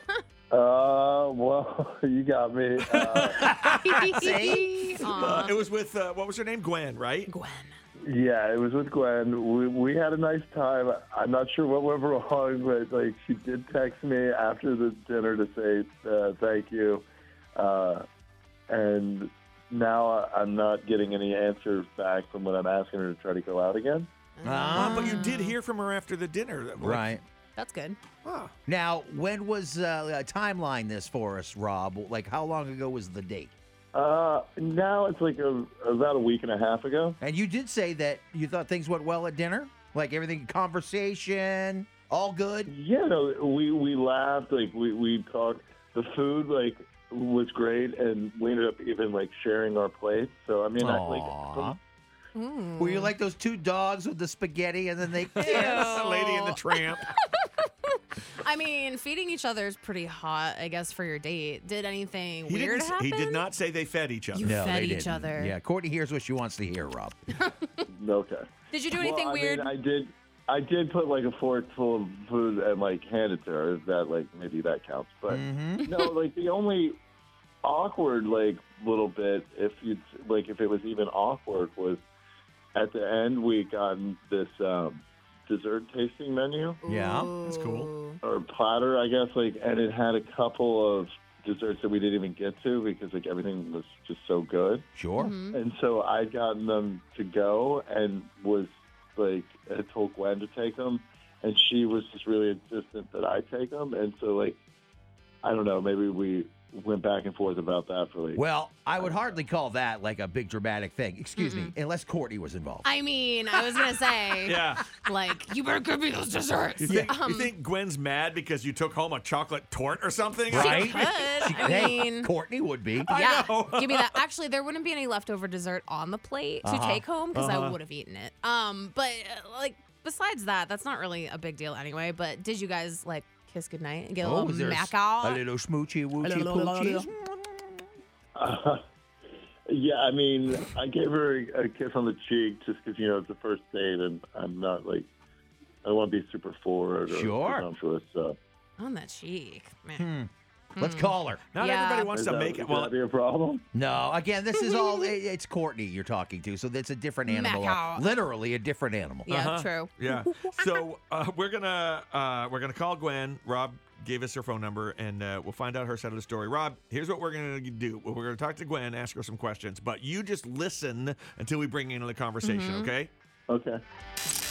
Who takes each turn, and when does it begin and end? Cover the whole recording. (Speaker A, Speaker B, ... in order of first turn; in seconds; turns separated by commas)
Speaker A: 0.5-3.4, Speaker B: 2.9-4.4, Speaker C: 3.6-5.5, Speaker D: 3.8-5.6, Speaker B: 5.0-7.3, Speaker D: 7.3-7.7, Speaker A: 8.0-18.1, Speaker A: 18.7-24.1, Speaker D: 24.4-25.5, Speaker C: 24.4-25.2, Speaker B: 24.7-27.1, Speaker C: 26.8-27.2, Speaker D: 27.6-28.0, Speaker B: 28.2-28.5, Speaker C: 28.7-33.5, Speaker A: 33.9-37.2, Speaker C: 37.2-42.7, Speaker A: 42.7-51.8, Speaker C: 50.8-51.8, Speaker D: 52.4-53.1, Speaker C: 52.8-56.1, Speaker B: 55.3-57.0, Speaker D: 55.5-63.4, Speaker B: 62.5-64.5, Speaker D: 64.3-65.5, Speaker C: 64.4-67.2, Speaker D: 67.4-67.8, Speaker A: 67.9-77.0, Speaker D: 68.7-69.7, Speaker C: 75.3-75.9, Speaker A: 77.6-82.0, Speaker A: 82.8-86.8, Speaker D: 86.8-88.2, Speaker C: 86.8-87.3, Speaker B: 87.4-87.9, Speaker A: 88.2-94.8, Speaker C: 95.0-95.3, Speaker D: 95.2-95.6, Speaker A: 95.5-104.6, Speaker A: 105.4-108.4, Speaker C: 108.3-112.9, Speaker A: 109.0-109.2, Speaker D: 111.4-111.8, Speaker D: 112.8-117.5, Speaker B: 114.4-114.9, Speaker B: 116.8-121.2, Speaker C: 120.5-123.1, Speaker D: 120.5-122.3, Speaker B: 123.1-124.2, Speaker D: 123.1-135.4, Speaker C: 126.6-127.0, Speaker B: 127.3-127.8, Speaker C: 134.2-137.8, Speaker D: 136.2-137.1, Speaker A: 138.3-138.8, Speaker A: 139.7-145.1, Speaker A: 145.8-148.4, Speaker C: 147.1-147.7, Speaker D: 148.8-150.1, Speaker C: 150.0-151.4, Speaker D: 150.8-152.1, Speaker B: 151.5-152.9, Speaker A: 152.1-153.7, Speaker C: 153.7-159.3, Speaker D: 154.5-155.1, Speaker D: 157.3-158.2, Speaker D: 159.3-160.7, Speaker B: 159.3-173.1, Speaker D: 172.4-172.9, Speaker A: 173.5-173.8